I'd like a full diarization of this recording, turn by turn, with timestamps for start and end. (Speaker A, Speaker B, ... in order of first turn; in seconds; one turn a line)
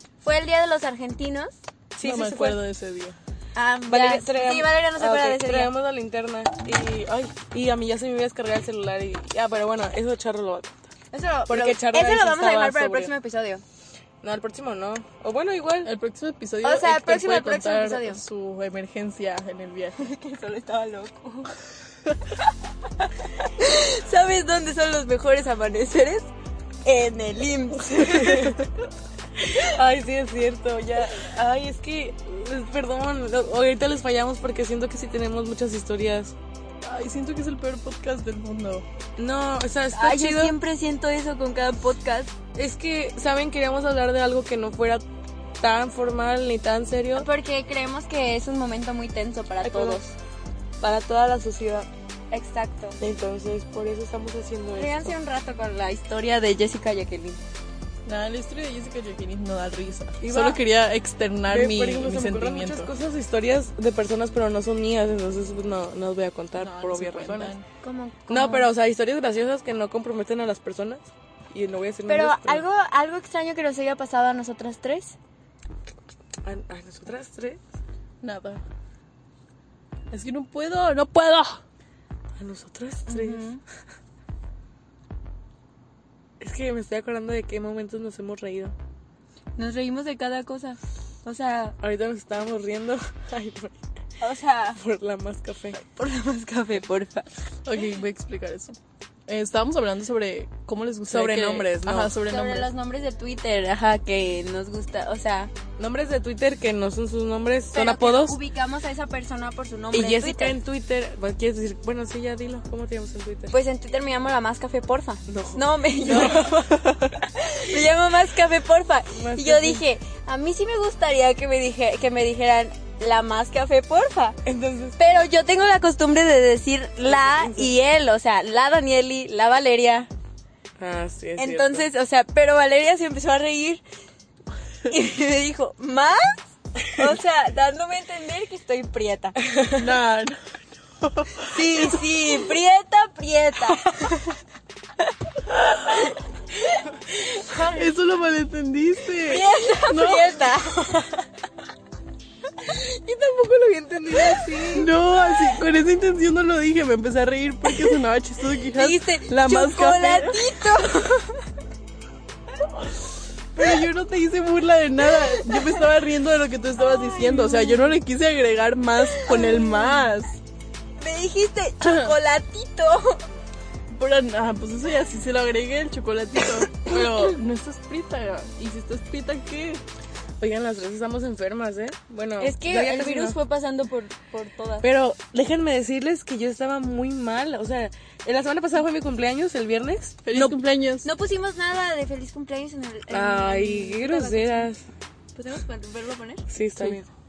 Speaker A: 0.2-1.6
Speaker B: 1.9-2.6
Speaker C: 2.0-3.1
Speaker A: 3.5-5.7
Speaker B: 3.9-10.8
Speaker A: 11.1-13.6
Speaker B: 11.5-13.1
Speaker B: 14.2-15.9
Speaker C: 15.8-19.9
Speaker A: 16.6-18.2
Speaker A: 20.0-21.5
Speaker A: 23.4-26.3
Speaker A: 26.8-28.6
Speaker B: 28.0-28.6
Speaker B: 29.4-36.3
Speaker C: 36.8-38.9
Speaker B: 39.2-40.5
Speaker A: 39.9-42.3
Speaker B: 42.5-45.0
Speaker B: 45.6-47.3
Speaker A: 47.1-50.0
Speaker B: 49.6-50.1
Speaker B: 50.8-51.9
Speaker A: 52.3-53.0
Speaker B: 53.0-55.1
Speaker A: 54.7-57.4
Speaker C: 58.0-62.9
Speaker B: 60.2-60.6
Speaker B: 61.5-67.5
Speaker C: 66.6-67.7
Speaker A: 67.8-68.7
Speaker B: 68.3-72.6
Speaker A: 72.1-75.2
Speaker B: 76.4-77.6
Speaker C: 78.2-78.6
Speaker C: 80.1-81.6
Speaker B: 82.4-83.5
Speaker A: 83.1-83.6
Speaker B: 86.4-88.7
Speaker A: 89.6-91.7
Speaker B: 91.8-93.8
Speaker A: 94.2-94.8
Speaker B: 94.8-95.8
Speaker A: 95.8-97.3
Speaker C: 97.6-98.8
Speaker C: 99.3-102.7
Speaker B: 101.1-102.2
Speaker A: 102.2-105.5
Speaker B: 105.8-108.4
Speaker A: 107.7-110.5
Speaker B: 109.9-113.5
Speaker A: 113.5-116.5
Speaker B: 115.3-117.3
Speaker C: 116.1-116.5
Speaker A: 117.4-124.4
Speaker B: 119.1-119.8
Speaker B: 124.4-125.0
Speaker A: 125.0-130.1
Speaker B: 127.0-127.7
Speaker B: 130.8-131.8
Speaker A: 131.4-133.8
Speaker A: 134.9-139.4
Speaker C: 139.7-140.4
Speaker A: 141.5-144.2
Speaker A: 147.4-147.8
Speaker C: 147.6-150.4
Speaker A: 149.3-151.1
Speaker A: 152.6-154.9
Speaker B: 153.9-154.9
Speaker C: 154.7-160.5
Speaker A: 158.8-161.4
Speaker C: 163.5-170.4
Speaker A: 165.3-165.8
Speaker A: 166.8-167.9
Speaker A: 169.1-170.0
Speaker A: 171.0-173.2
Speaker C: 171.8-172.1
Speaker C: 173.9-179.8
Speaker B: 180.4-183.4
Speaker A: 182.4-184.9
Speaker B: 184.8-190.6
Speaker C: 190.2-191.1
Speaker A: 191.0-194.7
Speaker B: 193.1-194.8
Speaker A: 195.3-196.4
Speaker B: 196.5-197.1